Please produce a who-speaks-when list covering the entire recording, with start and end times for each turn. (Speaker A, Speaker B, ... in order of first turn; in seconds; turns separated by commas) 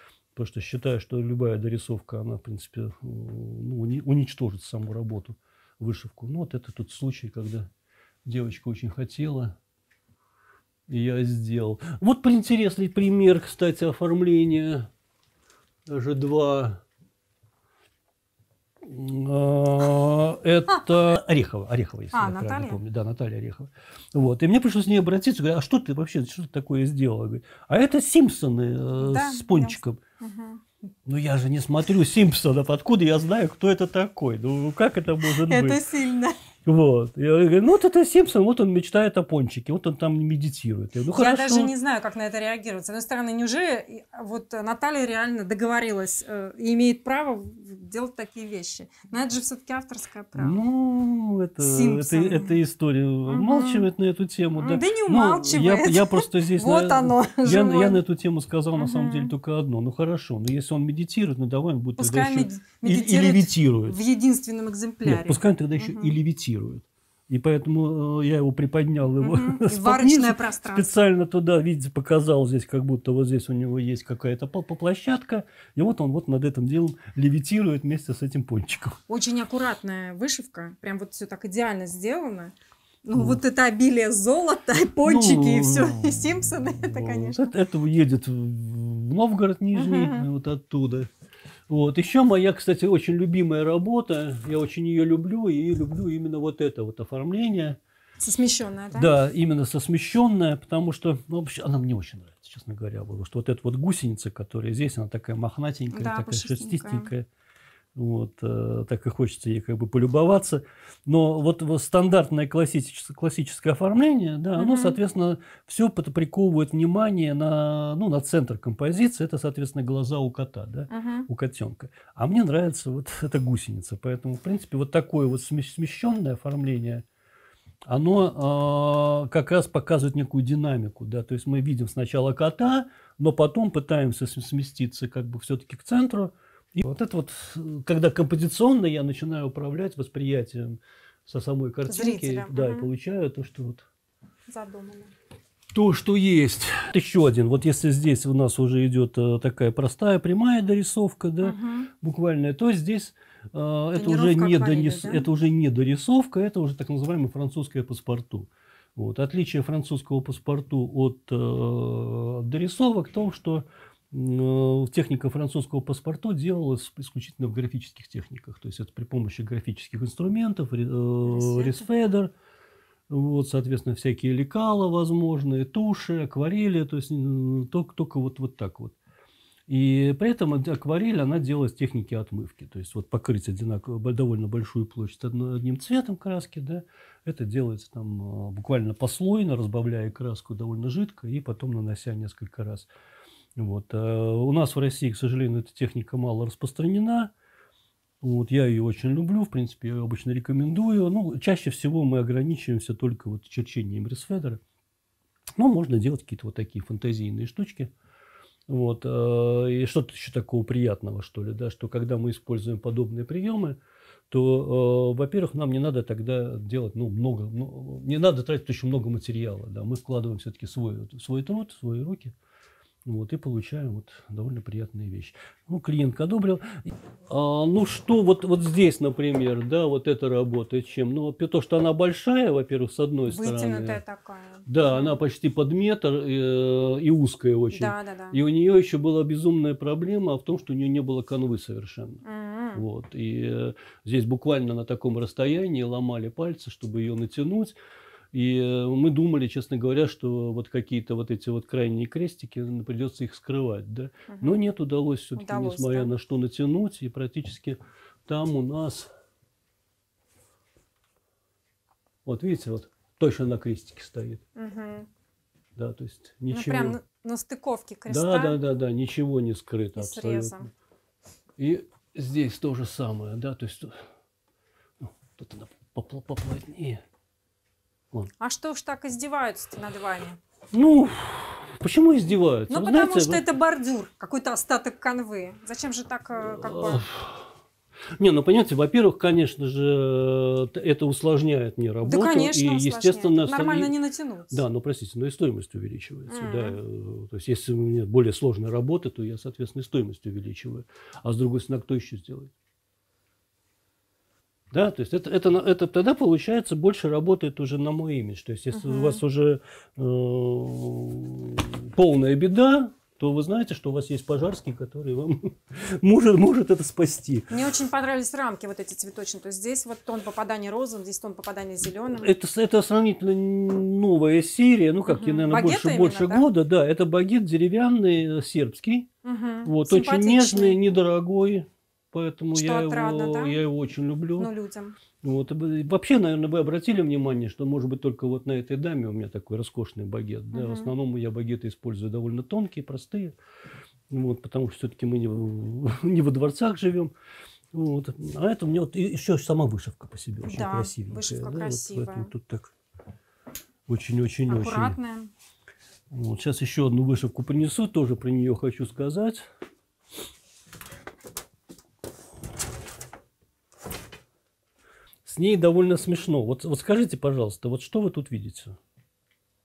Speaker A: 0.3-7.7, Speaker A: 8.2-9.6, Speaker A: 10.9-14.9, Speaker A: 15.9-16.8, Speaker A: 18.8-30.0, Speaker B: 22.1-22.8, Speaker B: 29.0-30.6, Speaker A: 31.1-35.8, Speaker B: 35.2-36.4, Speaker A: 36.6-41.7, Speaker B: 41.1-50.6, Speaker A: 50.4-64.0, Speaker B: 51.6-52.6, Speaker B: 53.3-53.9, Speaker B: 54.6-58.0, Speaker B: 58.8-59.3, Speaker B: 62.0-66.2, Speaker A: 65.0-79.0, Speaker B: 69.2-70.9, Speaker B: 79.1-87.5, Speaker A: 85.0-86.2, Speaker A: 86.8-91.1, Speaker B: 89.7-90.3, Speaker A: 91.7-97.8, Speaker B: 98.2-99.1, Speaker A: 98.9-107.3, Speaker B: 105.9-107.1, Speaker A: 108.0-127.0, Speaker B: 114.6-115.0, Speaker B: 120.9-121.3, Speaker A: 127.9-143.9, Speaker B: 141.9-142.9, Speaker B: 144.5-145.1, Speaker A: 145.7-172.3, Speaker B: 151.4-151.9, Speaker B: 153.9-155.3, Speaker B: 171.2-171.8, Speaker A: 173.1-178.9, Speaker A: 179.7-192.9, Speaker A: 193.6-197.3, Speaker A: 198.2-204.6, Speaker A: 205.6-207.9, Speaker A: 208.7-213.8, Speaker A: 214.3-222.3, Speaker A: 223.1-234.0, Speaker B: 233.3-235.2, Speaker A: 234.7-242.2, Speaker B: 237.7-238.4, Speaker B: 242.2-242.8, Speaker A: 242.7-247.8, Speaker A: 248.3-259.1, Speaker B: 254.3-254.6, Speaker B: 255.3-256.1, Speaker A: 262.3-264.4, Speaker B: 264.6-265.1, Speaker A: 265.8-267.0, Speaker B: 266.5-268.6, Speaker A: 268.1-270.6, Speaker B: 269.9-270.7, Speaker A: 271.6-273.9, Speaker A: 275.1-277.0, Speaker B: 278.4-280.4, Speaker A: 280.7-283.4, Speaker B: 282.7-287.0, Speaker A: 286.6-287.4, Speaker A: 288.2-293.9, Speaker B: 292.0-294.6, Speaker A: 294.5-302.5, Speaker B: 296.3-296.8, Speaker A: 304.7-317.6, Speaker B: 308.7-309.2, Speaker B: 317.5-322.3, Speaker A: 322.1-329.1, Speaker B: 325.1-326.5, Speaker B: 329.2-330.8, Speaker A: 329.6-334.5, Speaker B: 332.5-333.6, Speaker B: 334.4-335.0, Speaker A: 335.2-343.4, Speaker B: 340.5-340.9, Speaker A: 344.1-347.1, Speaker A: 347.7-352.7, Speaker B: 350.4-352.3, Speaker A: 353.9-355.0, Speaker B: 354.5-355.3, Speaker A: 356.1-359.4, Speaker A: 365.2-368.8